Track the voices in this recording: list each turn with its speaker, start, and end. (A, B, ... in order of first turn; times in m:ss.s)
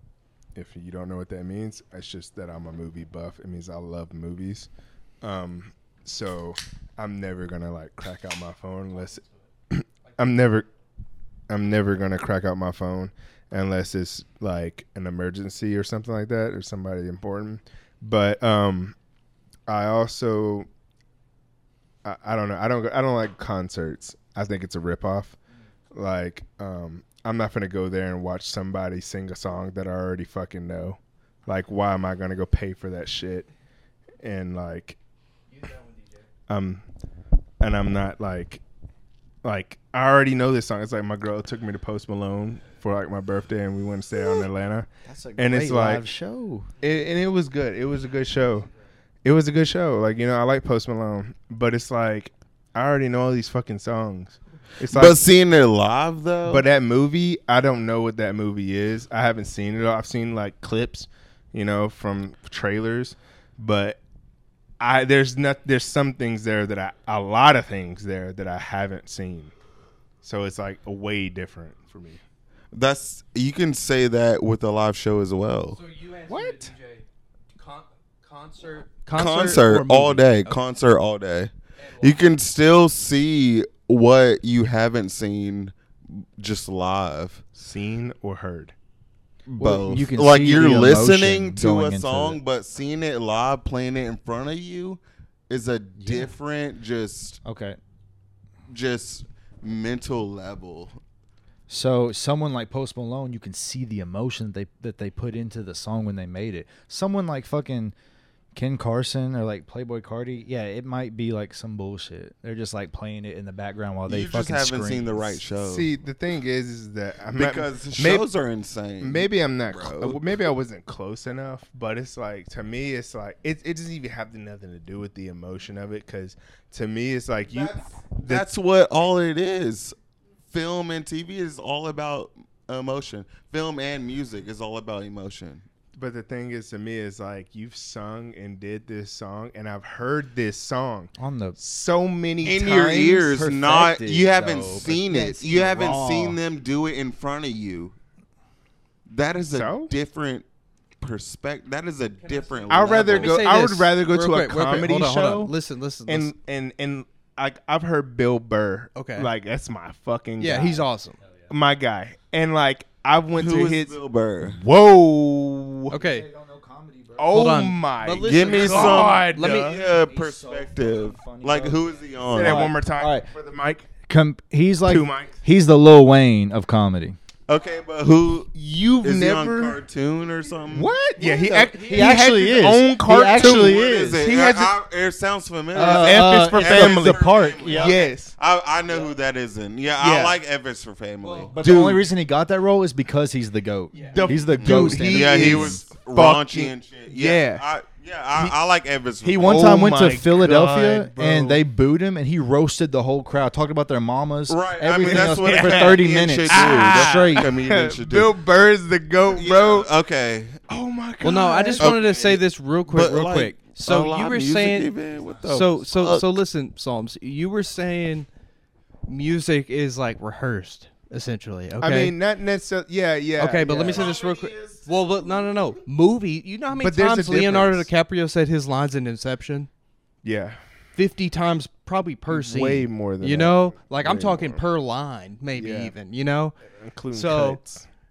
0:00.5-0:04.7 A
0:05.2-0:10.7 A
0:08.9-0:09.4 B
0:11.5-0:19.0 A
0:19.7-0:20.7 A
0:22.0-0:25.3 A
0:25.9-0:33.5 A
0:34.2-0:35.0 A
0:35.5-0:36.3 B
0:36.5-0:36.8 A
0:37.6-0:38.6 A
0:39.4-0:46.0 A
0:45.0-0:46.7 C
0:46.8-0:48.7 A
0:49.2-0:55.3 A
0:54.9-0:56.6 D
0:56.4-1:04.0 A
1:04.8-1:09.5 A
1:10.2-1:12.2 A
1:12.7-1:15.8 D
1:15.7-1:20.6 B
1:16.3-1:16.7 A
1:19.1-1:27.4 D
1:21.8-1:22.2 B
1:27.6-1:28.7 A
1:29.4-1:37.4 D
1:29.5-1:32.4 C
1:36.0-1:36.3 C
1:37.4-1:37.8 C
1:38.7-1:41.0 D
1:41.7-1:47.9 C
1:48.5-1:55.4 C
1:54.1-1:55.9 D
1:55.6-1:58.3 A
1:57.3-2:00.3 D
1:59.0-2:08.5 A
2:07.4-2:10.0 D
2:10.5-2:15.6 D
2:16.0-2:23.1 A
2:21.2-2:21.6 C
2:22.4-2:26.4 C
2:22.4-2:27.9 D
2:29.1-2:30.4 D
2:29.5-2:29.9 A
2:31.0-2:33.4 D
2:32.2-2:36.3 B
2:32.7-2:35.5 A
2:36.1-2:40.9 A
2:38.9-2:39.3 B
2:40.4-2:41.2 B
2:41.2-2:41.6 C
2:41.5-2:46.0 A
2:43.4-2:44.6 D
2:45.9-2:46.3 B
2:46.0-2:47.4 C
2:47.2-2:49.8 A
2:47.3-2:49.8 B
2:48.2-2:52.8 D
2:49.5-2:53.3 C
2:52.3-2:53.9 A
2:54.0-2:57.2 C
2:54.8-2:55.4 A
2:57.5-3:00.9 D
2:58.5-2:59.8 A
3:00.7-3:04.2 C
3:01.2-3:04.7 A
3:01.7-3:02.1 B
3:03.4-3:12.0 D
3:05.7-3:08.0 C
3:05.7-3:08.3 A
3:10.0-3:10.4 A
3:11.2-3:11.5 B
3:11.5-3:15.8 C
3:11.6-3:12.0 A
3:13.9-3:14.3 B
3:14.1-3:17.6 A
3:14.5-3:19.7 D
3:18.3-3:18.6 A
3:19.2-3:27.5 C
3:19.4-3:21.6 A
3:24.5-3:28.3 D
3:25.0-3:29.9 A
3:29.3-3:30.6 D
3:30.7-3:32.0 A
3:31.2-3:34.9 B
3:31.8-3:36.4 D
3:35.1-3:35.5 C
3:35.5-3:38.3 B
3:39.0-3:42.1 B
3:41.8-3:44.1 A
3:43.4-3:49.7 B
3:43.8-3:45.8 D
3:46.7-3:47.9 A
3:50.2-3:50.6 A
3:51.0-3:56.6 B
3:52.3-3:54.6 A
3:55.5-3:55.9 A
3:56.7-3:57.8 A
3:57.1-3:57.6 B